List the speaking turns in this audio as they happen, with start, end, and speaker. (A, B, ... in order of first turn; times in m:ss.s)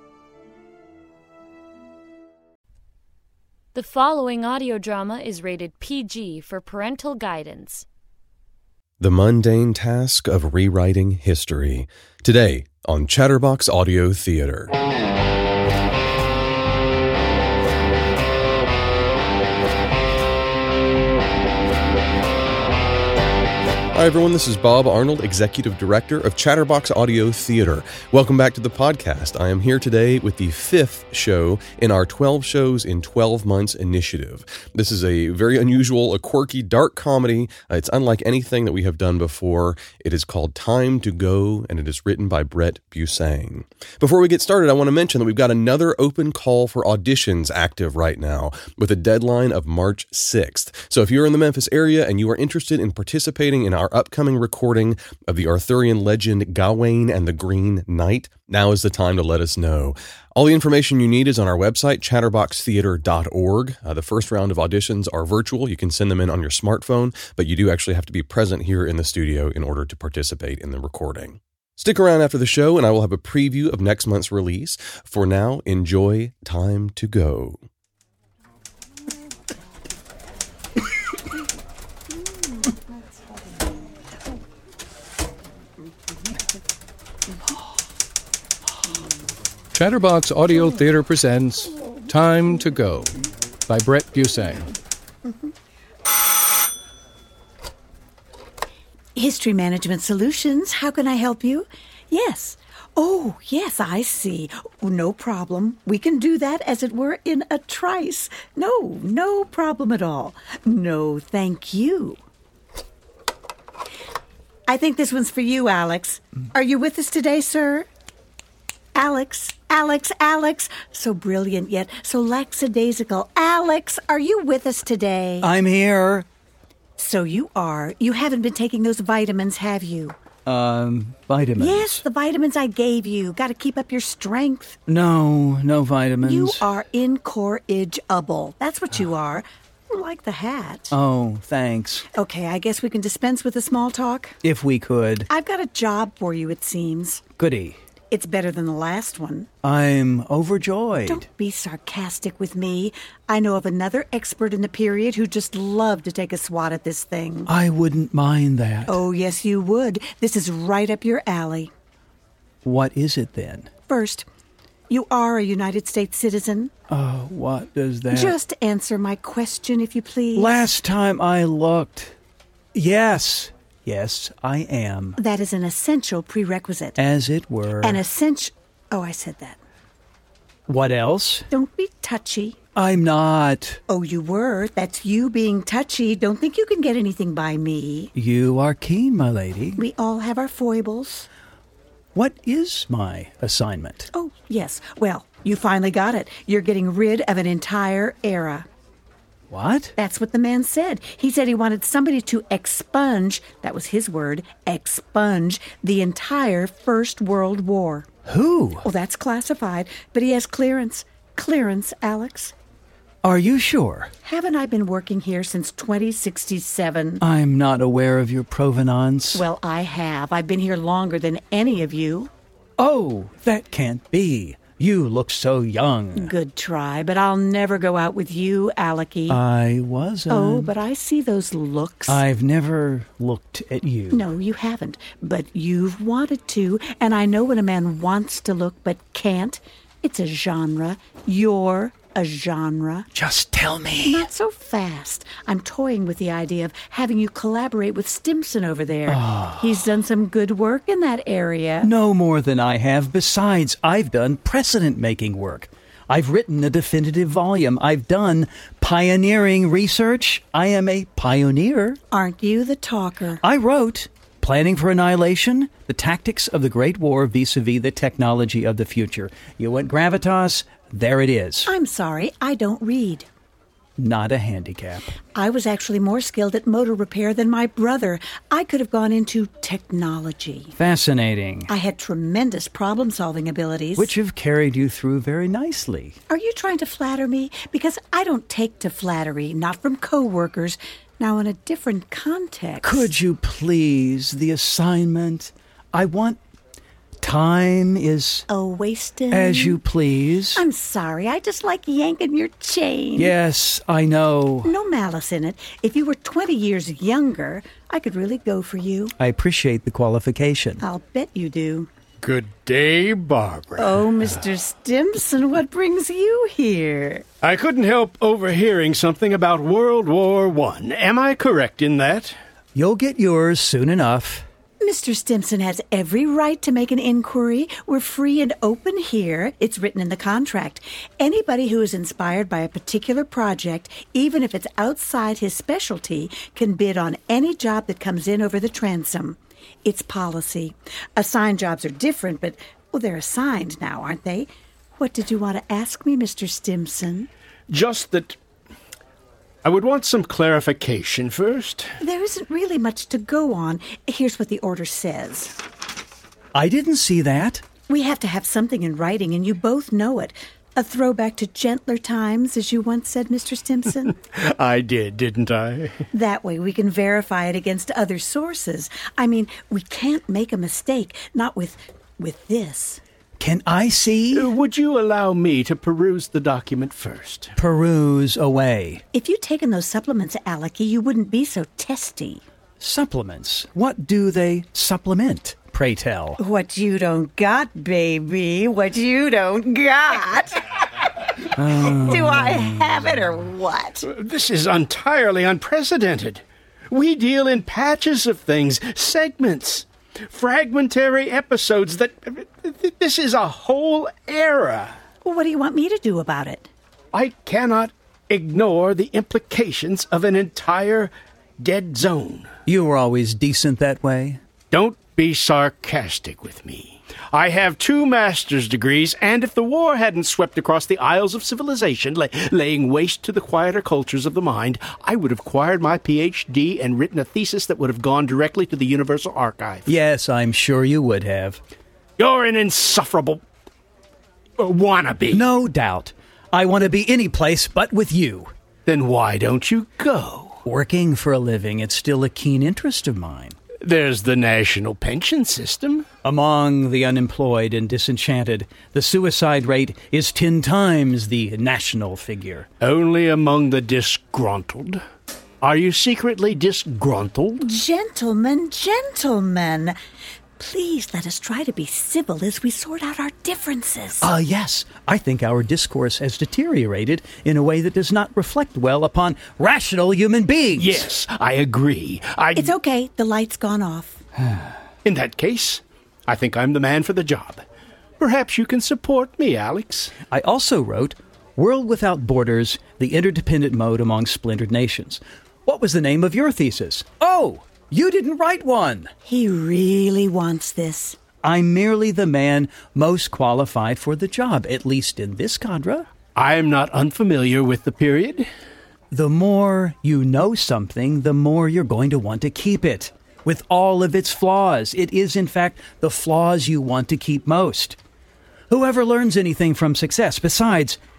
0:03.7-0:07.8 A
0:09.0-0:14.7 B
0:23.9-1:17.6 B
1:29.7-1:34.7 C
1:39.2-1:52.2 D
1:54.7-1:57.9 D
1:58.9-2:05.5 D
2:05.4-2:06.2 E
2:07.0-2:10.2 D
2:10.4-2:12.0 E
2:11.6-2:14.8 D
2:14.9-2:16.6 E
2:16.2-2:20.9 D
2:20.9-2:22.0 E
2:22.1-2:24.4 D
2:24.4-2:25.3 E
2:25.3-2:27.2 D
2:27.4-2:27.8 E
2:28.1-2:29.5 D
2:29.6-2:31.2 E
2:31.1-2:37.5 D
2:37.5-2:39.0 E
2:38.9-2:41.7 D
2:42.6-2:43.7 E
2:43.9-2:44.2 D
2:44.9-2:46.7 D
2:46.9-2:48.3 E
2:48.1-2:50.6 D
2:50.3-2:52.1 E
2:52.7-2:55.2 E
2:55.2-2:57.0 D
2:57.0-2:58.0 E
2:57.8-2:59.6 D
3:00.7-3:01.5 E
3:01.5-3:02.6 D
3:02.8-3:03.8 E
3:03.9-3:08.1 D
3:08.1-3:09.8 E
3:09.8-3:11.3 D
3:12.1-3:14.1 E
3:14.1-3:18.7 D
3:19.5-3:19.9 E
3:20.0-3:28.1 D
3:28.3-3:28.8 E
3:28.8-3:32.5 D
3:33.2-3:34.1 E
3:34.2-3:37.2 D
3:37.2-3:39.4 E
3:39.3-3:42.3 D
3:42.8-3:46.3 E
3:46.1-3:49.4 D
3:49.3-3:50.7 E
3:50.3-3:52.2 D
3:52.1-3:54.2 E
3:54.1-4:03.1 D
4:03.1-4:04.3 E
4:04.0-4:11.9 D
4:09.1-4:09.7 E
4:11.8-4:22.0 E
4:22.1-4:23.4 D
4:23.4-4:31.7 E
4:31.6-4:33.3 D
4:34.0-4:35.1 E
4:35.3-4:40.7 D
4:40.8-4:41.7 E
4:41.7-4:44.1 D
4:44.0-4:46.2 E
4:46.3-4:53.1 D
4:52.8-4:56.4 E
4:57.2-4:58.5 E
4:58.5-4:59.8 D
4:59.3-5:00.6 E
5:00.5-5:03.3 D
5:03.2-5:04.7 E
5:04.6-5:09.1 D
5:09.2-5:10.8 E
5:10.8-5:11.9 D
5:12.2-5:14.1 F
5:13.8-5:17.2 D
5:17.4-5:22.3 F
5:22.7-5:24.4 E
5:24.8-5:47.3 D
5:47.7-5:48.4 F
5:49.6-5:51.9 F
5:52.0-5:55.6 D
5:56.5-5:57.6 E
5:57.9-6:04.2 D
6:04.3-6:06.0 F
6:06.1-6:13.0 D
6:13.4-6:14.5 E
6:14.3-6:17.5 F
6:17.6-6:19.0 E
6:19.1-6:22.4 D
6:22.8-6:26.4 E
6:26.4-6:30.7 D
6:31.2-6:34.0 D
6:31.6-6:32.6 E
6:34.0-6:45.0 F
6:45.2-6:46.7 D
6:47.1-6:52.5 F
6:52.7-6:54.4 E
6:54.7-7:09.9 F
7:09.8-7:11.6 E
7:12.2-7:13.4 F
7:14.6-7:15.4 F
7:15.3-7:18.5 E
7:18.8-7:20.6 F
7:20.6-7:23.6 E
7:23.8-7:26.1 F
7:26.2-7:32.7 E
7:32.8-7:35.0 F
7:35.6-7:37.6 F
7:37.6-7:40.0 D
7:40.6-7:44.3 D
7:44.2-7:51.0 E
7:50.8-7:52.7 F
7:52.5-7:54.2 D
7:55.0-7:57.6 F
7:58.2-8:00.1 F
8:00.3-8:09.1 E
8:09.2-8:11.2 D
8:11.4-8:16.1 E
8:16.4-8:18.5 F
8:19.1-8:28.0 E
8:28.7-8:31.0 E